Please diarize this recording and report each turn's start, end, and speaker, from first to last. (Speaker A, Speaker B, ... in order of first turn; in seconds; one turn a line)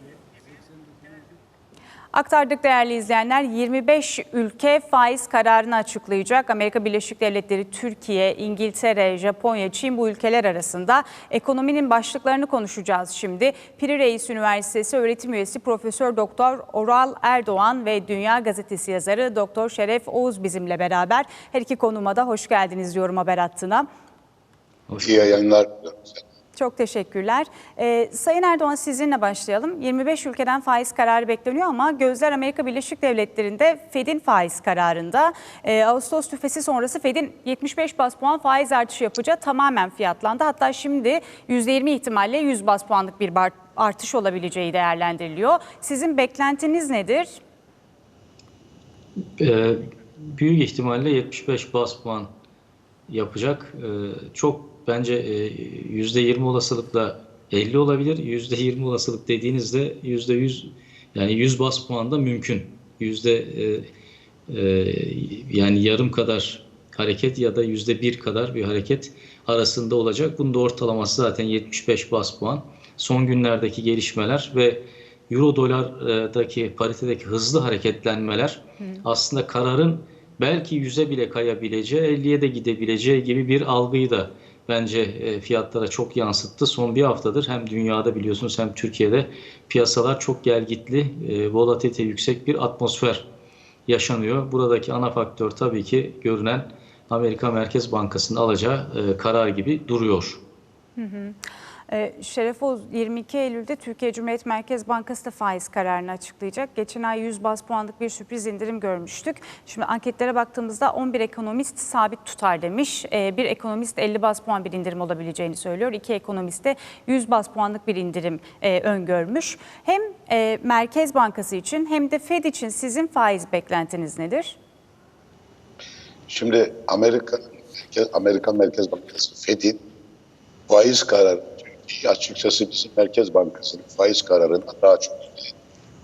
Speaker A: 2.1-23.9
Speaker B: 24.9-25.4
Speaker C: 25.0-26.2
Speaker A: 26.6-47.4
Speaker B: 49.4-52.3
Speaker B: 53.1-63.9
Speaker B: 64.5-93.3
Speaker B: 93.9-100.4
Speaker A: 101.0-101.4
Speaker A: 101.9-124.6
Speaker C: 126.3-129.8
Speaker C: 130.7-135.5